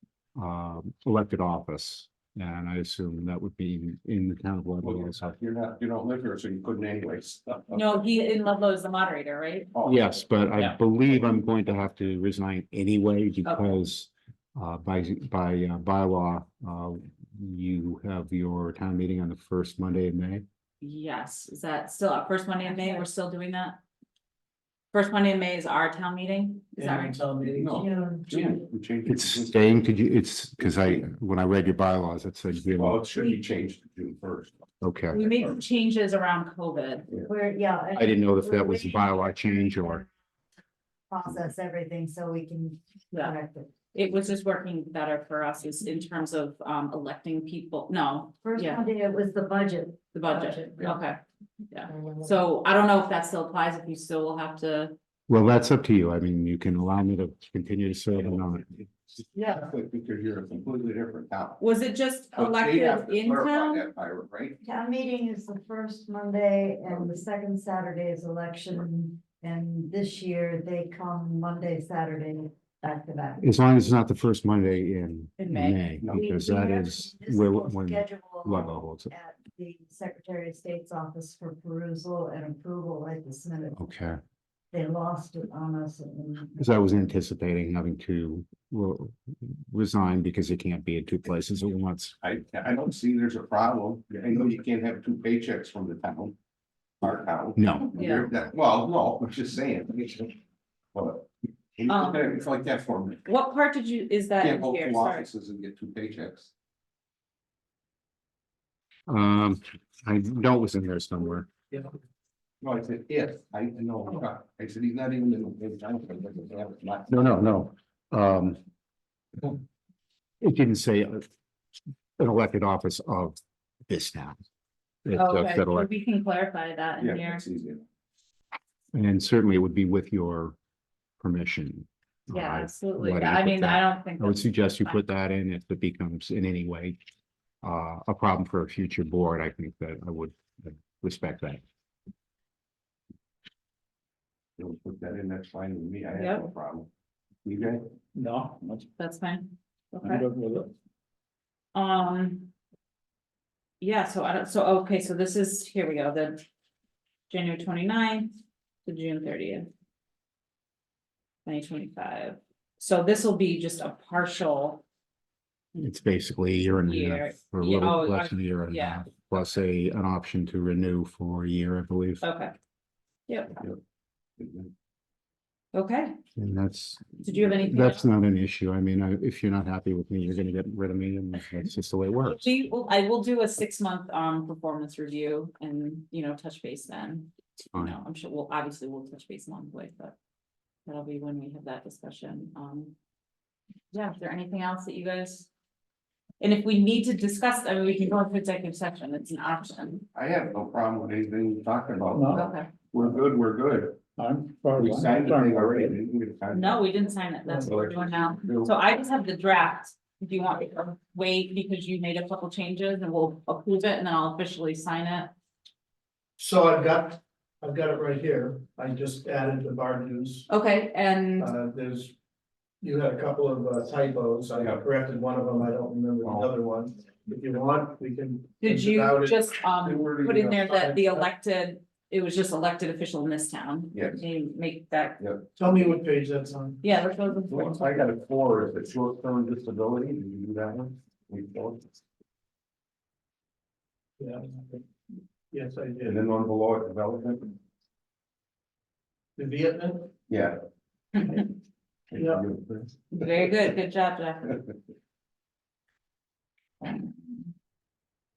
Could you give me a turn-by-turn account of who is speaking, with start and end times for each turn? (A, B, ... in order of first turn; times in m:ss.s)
0:00.4-0:05.3 A
0:04.8-0:08.0 B
0:07.7-0:09.7 C
0:09.8-0:10.1 B
0:09.8-0:20.4 A
0:13.4-0:13.8 C
0:20.8-0:23.8 C
0:22.7-0:23.1 D
0:24.9-0:27.3 C
0:26.8-0:27.7 E
0:27.6-0:29.6 B
0:27.6-0:28.6 D
0:29.1-0:33.0 A
0:30.7-0:31.0 B
0:32.8-0:35.6 B
0:34.8-0:35.2 A
0:35.1-0:37.1 C
0:37.2-0:39.3 D
0:38.0-0:40.0 A
0:41.1-0:43.7 D
0:43.9-0:48.8 C
0:48.4-0:50.9 D
0:50.1-0:51.2 C
0:51.7-0:55.0 C
0:51.9-0:52.4 D
0:55.3-0:58.9 A
0:59.4-0:59.6 D
0:59.4-1:01.6 B
1:01.6-1:03.9 C
1:02.4-1:04.6 B
1:04.6-1:13.4 D
1:13.4-1:19.1 A
1:15.4-1:15.8 C
1:16.1-1:23.8 D
1:23.8-1:24.2 A
1:24.7-1:26.9 D
1:26.6-1:32.2 A
1:32.2-1:36.4 B
1:37.0-1:40.4 B
1:37.6-1:38.4 A
1:40.9-1:43.2 B
1:41.9-1:42.4 C
1:43.2-1:45.3 C
1:44.4-1:46.5 B
1:49.1-1:51.5 A
1:52.6-1:57.4 B
1:57.1-1:58.6 A
2:00.4-2:01.2 A
2:02.2-2:04.4 A
2:05.0-2:05.9 A
2:05.1-2:07.4 C
2:07.0-2:07.8 B
2:08.9-2:10.6 A
2:11.2-2:17.0 A
2:12.3-2:15.0 C
2:17.6-2:21.6 A
2:24.6-2:26.9 B
2:26.2-2:26.5 C
2:27.4-2:27.8 B
2:28.2-2:28.9 F
2:29.0-2:30.3 C
2:30.0-2:30.7 F
2:31.8-2:32.5 C
2:33.8-2:36.4 C
2:37.3-2:39.7 C
2:41.4-2:44.8 C
2:45.8-2:52.2 A
2:46.8-2:49.1 C
2:52.2-2:52.5 C
2:53.3-2:53.6 C
2:54.4-2:54.7 B
2:55.7-2:56.1 C
2:56.4-3:02.4 A
2:57.2-2:58.1 C
3:02.2-3:10.2 C
3:10.9-3:13.0 C
3:13.9-3:15.5 C
3:16.4-3:20.0 C
3:20.1-3:24.0 B
3:22.1-3:22.4 F
3:22.3-3:22.7 C
3:24.2-3:26.0 F
3:24.8-3:26.9 B
3:26.5-3:35.3 C
3:27.5-3:27.7 E
3:27.6-3:28.7 B
3:36.4-3:40.5 E
3:40.5-3:41.5 C
3:41.4-3:42.1 E
3:42.8-3:49.4 E
3:48.6-3:55.2 C
3:49.7-3:50.8 B
3:50.7-3:51.2 E
3:53.9-3:54.2 B
3:55.2-3:55.5 B
3:55.6-3:56.8 E
3:56.8-3:58.0 C
3:57.5-4:02.0 B
4:04.2-4:04.8 E
4:05.5-4:06.2 E
4:06.0-4:07.6 B
4:09.4-4:10.1 E
4:10.3-4:10.6 B
4:12.1-4:13.6 B
4:12.2-4:12.4 E
4:13.1-4:14.6 C